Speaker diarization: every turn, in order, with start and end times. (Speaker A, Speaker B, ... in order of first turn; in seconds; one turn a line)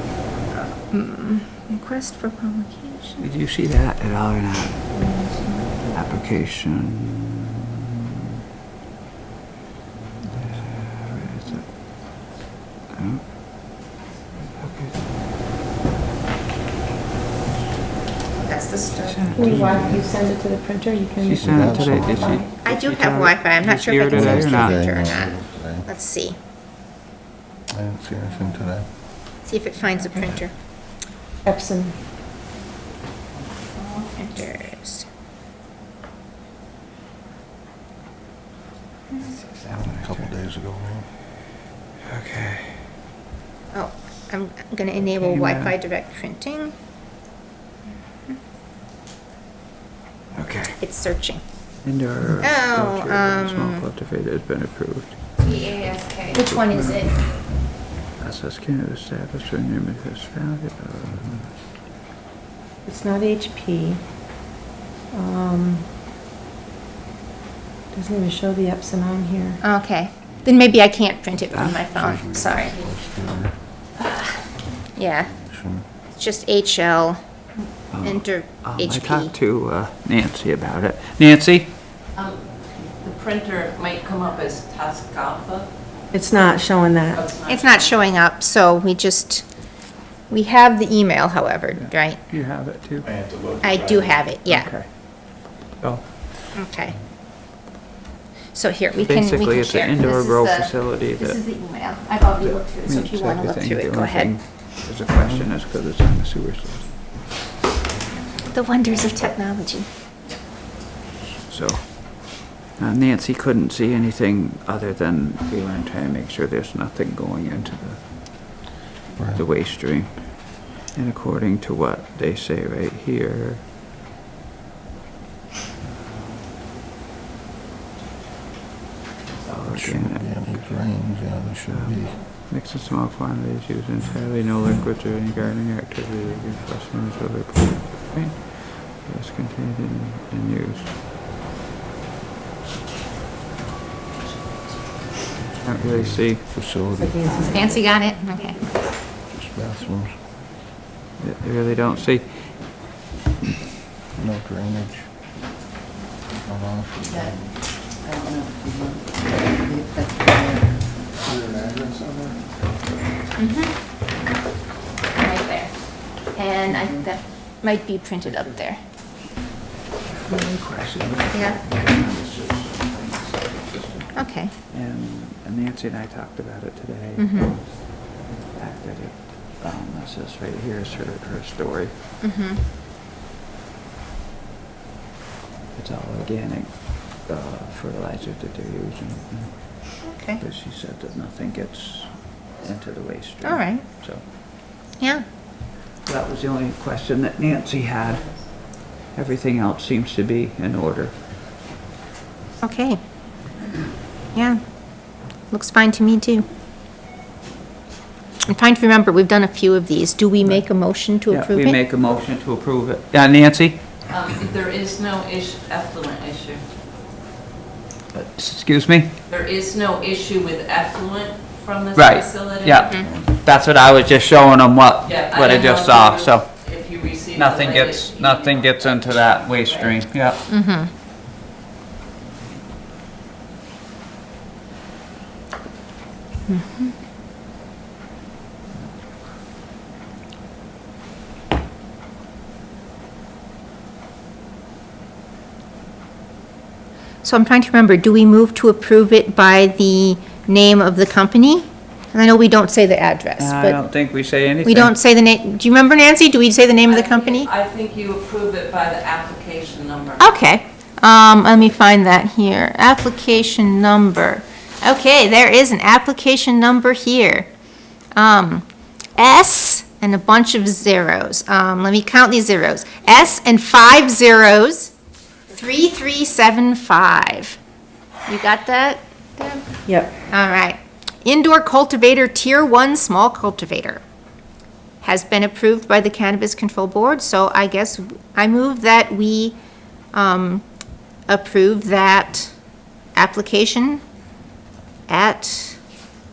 Speaker A: 0.9-3.3
Speaker B: 3.2-5.0
Speaker C: 4.9-5.9
Speaker B: 5.9-7.7
Speaker B: 10.2-11.7
Speaker B: 12.9-13.3
Speaker B: 14.5-15.1
Speaker A: 18.4-19.6
Speaker B: 18.9-20.2
Speaker C: 19.3-22.5
Speaker D: 19.5-20.0
Speaker B: 21.2-24.8
Speaker D: 21.4-22.4
Speaker A: 22.6-26.4
Speaker D: 24.1-25.9
Speaker D: 27.7-28.9
Speaker A: 29.4-30.5
Speaker C: 31.4-32.0
Speaker A: 33.9-35.0
Speaker B: 39.2-40.4
Speaker D: 39.9-41.0
Speaker B: 42.0-42.9
Speaker A: 43.7-46.7
Speaker B: 45.0-45.8
Speaker B: 50.3-50.8
Speaker A: 50.8-51.4
Speaker B: 51.8-55.5
Speaker A: 52.4-53.9
Speaker A: 55.4-57.2
Speaker B: 56.4-57.6
Speaker B: 58.1-61.6
Speaker C: 62.8-64.3
Speaker C: 65.1-65.8
Speaker C: 67.9-69.6
Speaker A: 69.6-72.8
Speaker D: 71.9-73.5
Speaker E: 73.0-73.3
Speaker A: 74.9-75.3
Speaker D: 75.3-75.8
Speaker A: 76.1-77.2
Speaker B: 77.9-81.8
Speaker A: 78.0-79.3
Speaker E: 82.1-85.8
Speaker C: 86.1-87.2
Speaker E: 87.1-87.9
Speaker A: 87.5-92.2
Speaker B: 91.7-93.3
Speaker A: 93.6-94.7
Speaker B: 94.4-96.5
Speaker A: 96.5-97.0
Speaker A: 98.5-104.3
Speaker B: 99.0-101.8
Speaker B: 102.4-107.0
Speaker A: 108.5-109.9
Speaker B: 111.5-123.7
Speaker D: 119.2-119.4
Speaker B: 125.8-126.5
Speaker B: 129.4-141.0
Speaker D: 129.7-132.2
Speaker B: 145.6-146.5
Speaker D: 145.8-147.4
Speaker C: 147.0-147.8
Speaker A: 147.4-148.6
Speaker D: 149.0-150.2
Speaker B: 151.2-153.0
Speaker D: 154.2-155.1
Speaker D: 156.4-157.5
Speaker A: 163.4-163.7
Speaker A: 165.2-168.8
Speaker B: 170.1-181.9
Speaker A: 171.3-171.6
Speaker A: 174.1-174.5
Speaker A: 177.2-177.6
Speaker A: 182.2-182.6
Speaker B: 185.7-194.2
Speaker A: 190.0-190.4
Speaker A: 193.4-193.8
Speaker A: 195.0-195.2
Speaker B: 196.0-201.3
Speaker A: 202.6-203.0
Speaker A: 204.3-206.4
Speaker A: 208.5-211.8
Speaker B: 210.5-214.1
Speaker E: 214.1-216.6
Speaker B: 218.1-219.2
Speaker E: 219.3-223.1
Speaker B: 221.9-226.6
Speaker E: 225.0-229.9
Speaker B: 227.3-230.4
Speaker A: 230.5-230.9
Speaker A: 247.2-253.8
Speaker B: 253.4-255.0
Speaker A: 254.6-257.5
Speaker E: 256.9-260.3
Speaker A: 260.2-267.5
Speaker A: 268.1-274.9
Speaker A: 275.5-277.6
Speaker A: 278.2-284.0
Speaker C: 279.9-280.1
Speaker A: 285.0-289.6
Speaker A: 290.1-290.6
Speaker A: 291.3-292.6
Speaker A: 293.1-294.0
Speaker A: 295.1-295.8